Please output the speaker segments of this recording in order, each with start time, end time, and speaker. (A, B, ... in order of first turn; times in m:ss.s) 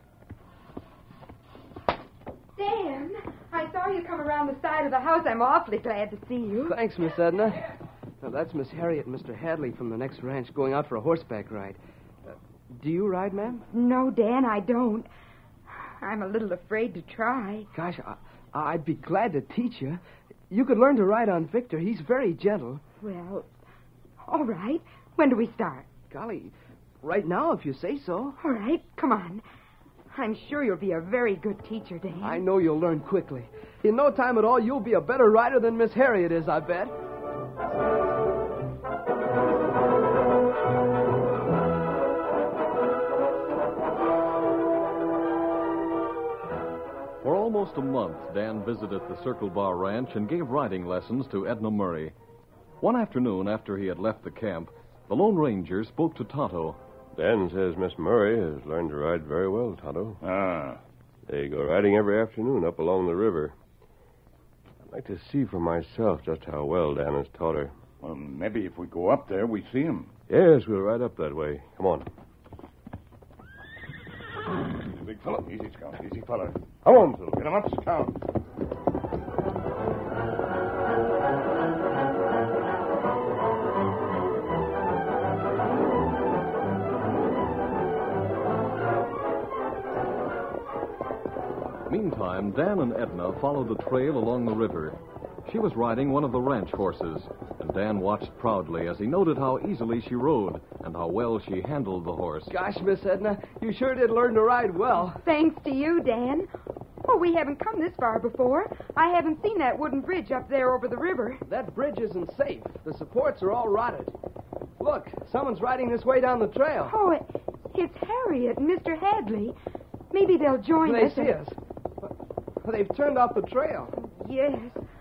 0:02.6-0:06.8 A
0:06.6-0:07.7 B
0:08.2-0:13.6 B
0:13.7-0:15.1 A
0:15.7-0:17.7 A
0:17.7-0:22.8 B
0:23.0-0:23.5 A
0:24.3-0:25.9 A
0:26.1-0:28.4 B
0:28.4-0:29.4 A
0:30.1-0:32.4 A
0:32.2-0:36.9 B
0:47.2-0:52.1 C
0:52.8-0:56.8 C
0:57.2-1:00.2 D
1:00.2-1:00.8 E
1:01.3-1:03.5 D
1:04.9-1:07.7 D
1:08.0-1:10.1 E
1:10.3-1:12.1 D
1:14.8-1:16.6 E
1:16.8-1:17.3 D
1:17.3-1:18.2 E
1:31.9-1:42.5 C
1:42.5-1:45.2 B
1:45.2-1:46.5 A
1:47.0-1:51.4 A
1:51.5-1:54.1 B
1:54.8-1:57.0 B
1:56.9-1:59.6 A
2:00.1-2:01.4 A
2:00.8-2:02.1 B
2:02.6-2:03.9 B
2:03.9-2:04.8 A